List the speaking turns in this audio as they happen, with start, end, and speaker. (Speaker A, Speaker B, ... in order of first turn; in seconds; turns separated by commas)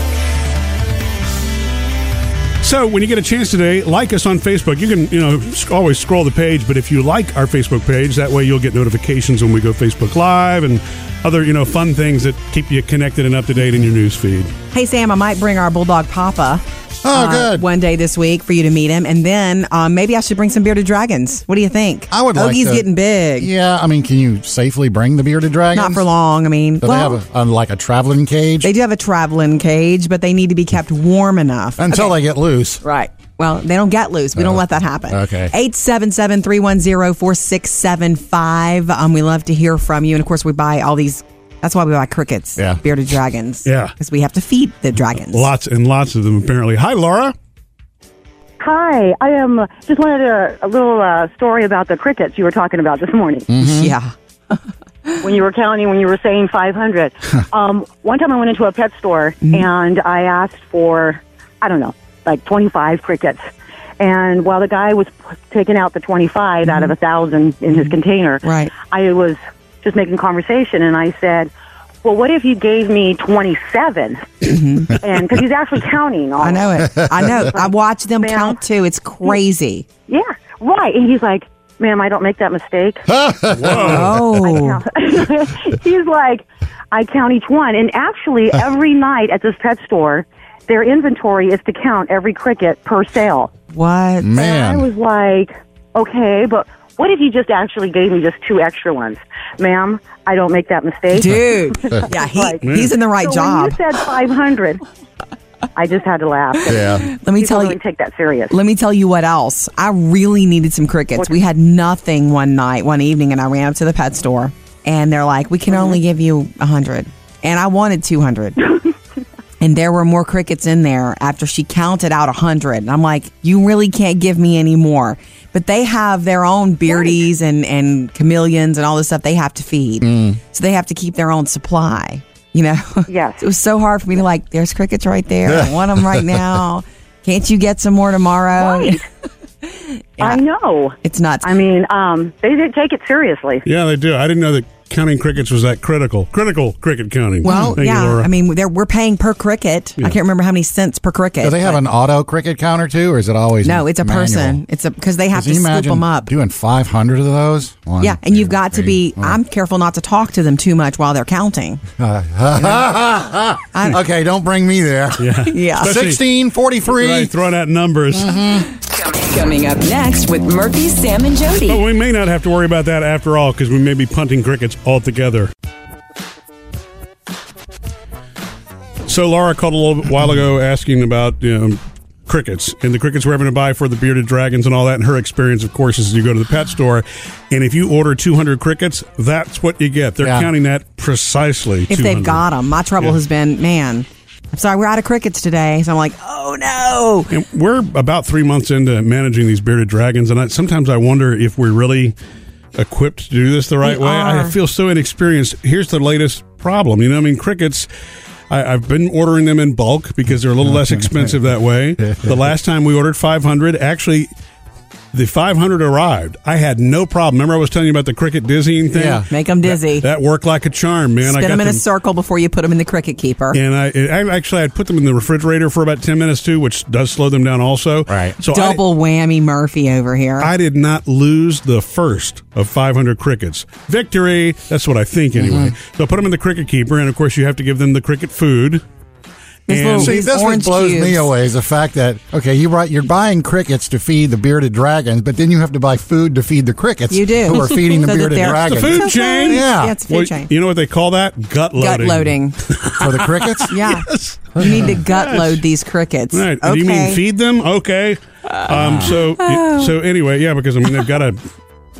Speaker A: 2.6-14.5, Speaker B: 14.7-23.5, Speaker C: 17.0-17.6, Speaker C: 22.1-22.9, Speaker C: 23.4-26.0, Speaker B: 25.7-27.2, Speaker C: 26.8-28.7, Speaker B: 28.6-32.2, Speaker C: 31.8-32.8, Speaker B: 32.8-45.5, Speaker C: 34.4-35.5, Speaker A: 43.6-43.9, Speaker A: 45.3-47.3, Speaker D: 48.6-53.5, Speaker C: 53.5-53.9, Speaker B: 53.6-54.6, Speaker D: 55.2-63.4, Speaker B: 59.4-59.7, Speaker D: 64.0-71.5, Speaker B: 66.7-66.9, Speaker B: 67.7-68.7, Speaker D: 72.0-78.6, Speaker B: 74.4-75.0, Speaker B: 76.4-79.9, Speaker D: 80.1-83.1, Speaker C: 83.1-84.6, Speaker A: 83.5-84.2, Speaker B: 83.7-84.8, Speaker D: 84.4-93.5, Speaker B: 93.7-94.4, Speaker C: 94.2-94.9, Speaker D: 94.4-104.8, Speaker B: 101.1-103.8, Speaker C: 101.2-102.1, Speaker A: 102.7-102.9, Speaker D: 105.8-108.5, Speaker C: 106.7-107.1, Speaker B: 106.9-107.8, Speaker B: 108.5-118.6, Speaker D: 115.7-116.0, Speaker B: 119.6-139.0, Speaker C: 130.0-130.4, Speaker D: 133.1-133.4, Speaker C: 135.5-136.4, Speaker D: 138.6-139.0, Speaker B: 139.7-140.4, Speaker D: 140.2-143.6, Speaker B: 141.0-141.6, Speaker A: 143.7-148.3, Speaker C: 147.4-147.8, Speaker B: 147.4-151.8, Speaker C: 151.4-154.6, Speaker B: 153.6-156.3, Speaker C: 155.3-159.4, Speaker B: 158.0-161.8, Speaker C: 162.0-167.3, Speaker A: 165.2-166.2, Speaker B: 165.5-165.9, Speaker A: 166.9-168.4, Speaker C: 168.1-168.7, Speaker E: 168.9-171.8, Speaker A: 171.7-175.5, Speaker A: 179.1-192.4, Speaker C: 190.2-190.5, Speaker B: 191.9-197.3, Speaker A: 197.3-202.1, Speaker A: 202.8-207.9, Speaker B: 203.8-204.6, Speaker A: 208.5-214.3, Speaker C: 212.1-212.4, Speaker A: 215.1-221.8, Speaker C: 218.9-219.2, Speaker B: 219.3-220.1, Speaker B: 221.2-223.6, Speaker A: 223.5-228.8, Speaker C: 228.1-228.4, Speaker B: 228.4-230.5, Speaker A: 230.4-238.8, Speaker C: 235.3-235.7, Speaker B: 239.7-241.3, Speaker A: 239.7-240.2, Speaker C: 240.0-250.0, Speaker B: 247.1-250.5, Speaker A: 248.5-255.6, Speaker B: 251.8-252.6, Speaker C: 253.0-253.7, Speaker B: 253.7-257.2, Speaker A: 256.3-261.4, Speaker C: 258.7-259.2, Speaker B: 259.4-259.9